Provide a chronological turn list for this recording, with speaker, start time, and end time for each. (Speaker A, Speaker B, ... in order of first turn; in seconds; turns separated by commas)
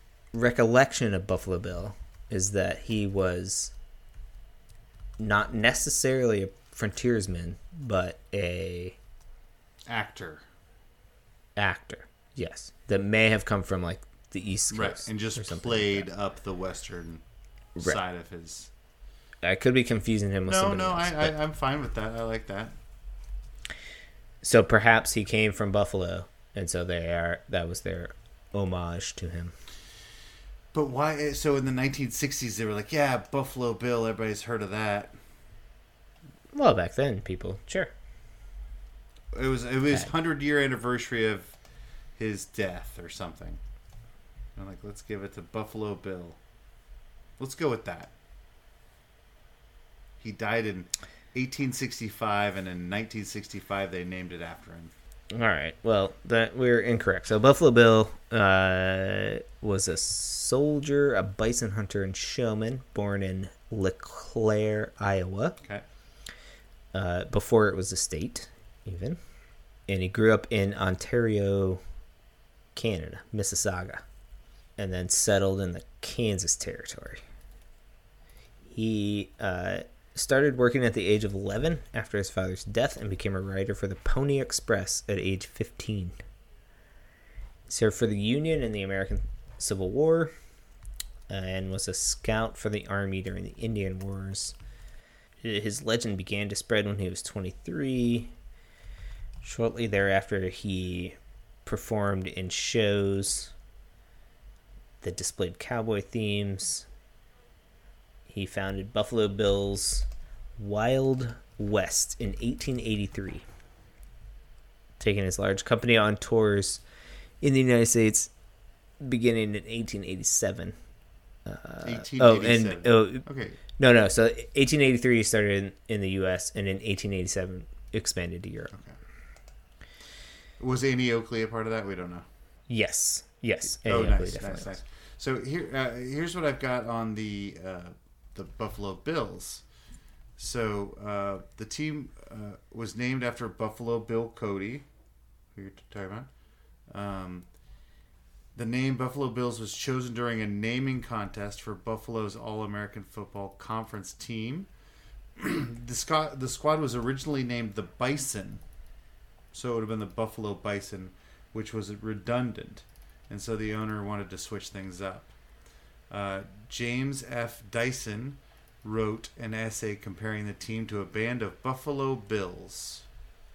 Speaker A: 0.3-3.7, Speaker A: 5.2-9.0, Speaker B: 9.9-10.4, Speaker A: 11.6-16.1, Speaker B: 14.7-17.2, Speaker B: 17.8-18.7, Speaker A: 19.4-21.3, Speaker B: 20.5-22.8, Speaker A: 24.4-29.5, Speaker B: 30.7-35.1, Speaker A: 36.5-37.9, Speaker B: 39.3-41.5, Speaker B: 42.2-43.6, Speaker B: 44.6-46.4, Speaker B: 47.4-48.1, Speaker B: 50.2-54.9, Speaker A: 55.3-65.6, Speaker A: 66.9-69.2, Speaker A: 69.9-71.8, Speaker A: 72.8-74.0, Speaker A: 74.8-77.2, Speaker A: 78.7-86.1, Speaker A: 87.7-90.3, Speaker A: 91.3-94.6, Speaker A: 95.4-98.3, Speaker A: 99.4-103.5, Speaker A: 105.0-106.9, Speaker A: 108.3-110.1, Speaker A: 110.6-113.4, Speaker A: 115.0-116.8, Speaker A: 117.4-118.3, Speaker A: 119.0-120.7, Speaker A: 121.5-123.2, Speaker B: 121.8-123.6, Speaker A: 123.8-128.7, Speaker B: 130.6-132.2, Speaker A: 132.7-134.7, Speaker B: 133.8-139.6, Speaker B: 140.4-144.9, Speaker B: 145.6-146.3, Speaker B: 146.9-147.5, Speaker B: 148.6-154.7, Speaker B: 155.4-158.6, Speaker B: 159.5-165.3, Speaker B: 166.1-173.1